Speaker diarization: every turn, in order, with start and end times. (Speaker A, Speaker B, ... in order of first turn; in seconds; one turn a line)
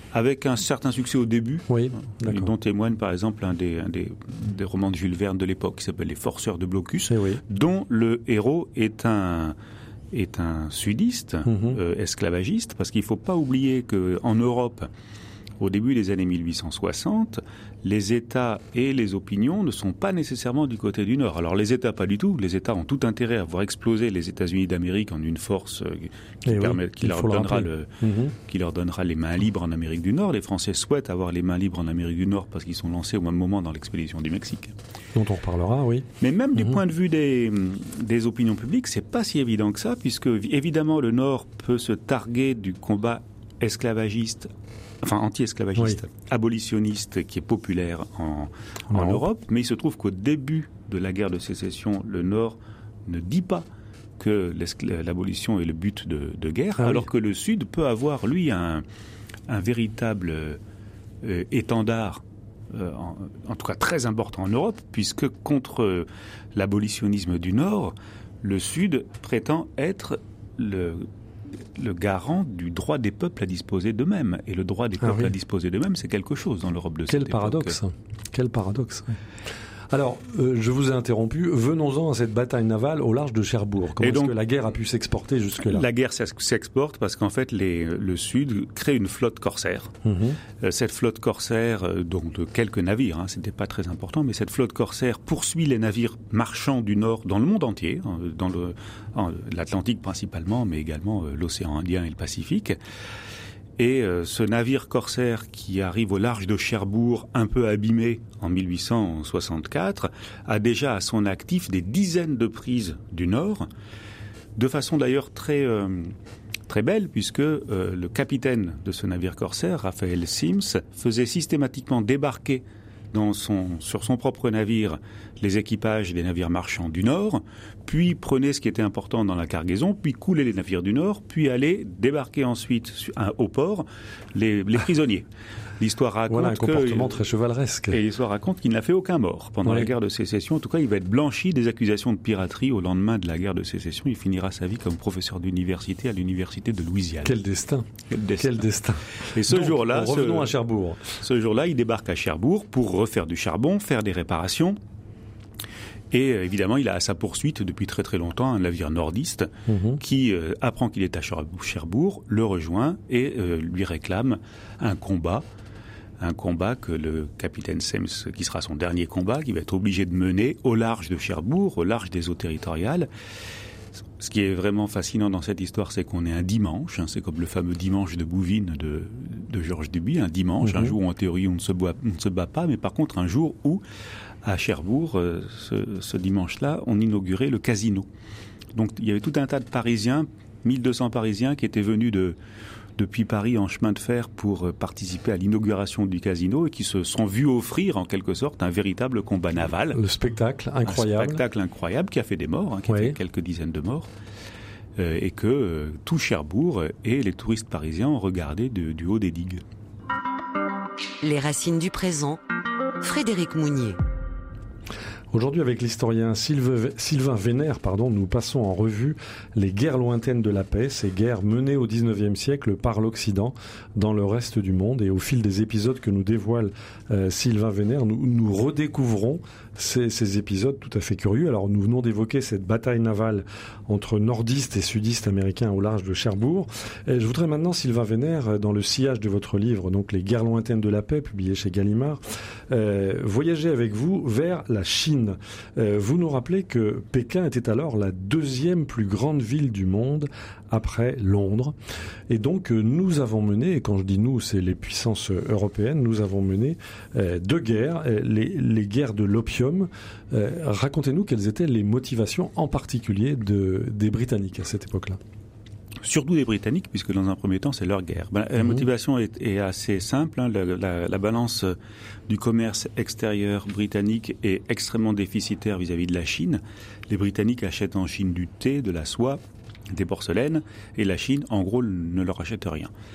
Speaker A: 0.1-9.6
Speaker B: 1.7-2.5
Speaker B: 7.1-7.4
Speaker A: 10.1-14.9
Speaker B: 11.5-11.8
Speaker A: 15.6-34.8
Speaker B: 26.5-28.3
Speaker B: 35.1-36.8
Speaker A: 36.2-44.5
Speaker A: 45.0-53.7
Speaker B: 48.9-49.2
Speaker A: 54.2-58.8
Speaker B: 56.8-57.0
Speaker A: 59.5-60.6
Speaker A: 61.2-71.1
Speaker A: 71.8-77.8
Speaker B: 75.0-75.3
Speaker B: 77.1-79.2
Speaker B: 79.9-85.9
Speaker A: 84.0-84.4
Speaker A: 85.6-90.0
Speaker B: 90.0-90.4
Speaker A: 90.5-102.8
Speaker A: 103.8-113.7
Speaker A: 114.6-116.1
Speaker A: 116.7-135.3
Speaker A: 135.8-137.2
Speaker B: 136.3-138.0
Speaker A: 137.9-147.4
Speaker B: 147.2-151.2
Speaker A: 148.1-148.6
Speaker A: 149.2-150.6
Speaker A: 151.1-154.8
Speaker A: 156.1-165.4
Speaker B: 159.7-160.0
Speaker A: 166.2-173.1
Speaker A: 174.2-183.8
Speaker B: 180.6-181.0
Speaker A: 184.4-188.1
Speaker A: 188.8-192.4
Speaker A: 193.0-200.0
Speaker B: 199.9-201.4
Speaker A: 200.9-204.1
Speaker B: 202.9-203.2
Speaker A: 205.0-209.6
Speaker C: 211.2-212.4
Speaker C: 213.0-214.0
Speaker B: 215.3-251.8
Speaker B: 252.3-265.2
Speaker A: 266.0-271.8
Speaker A: 272.3-279.4
Speaker A: 279.9-282.9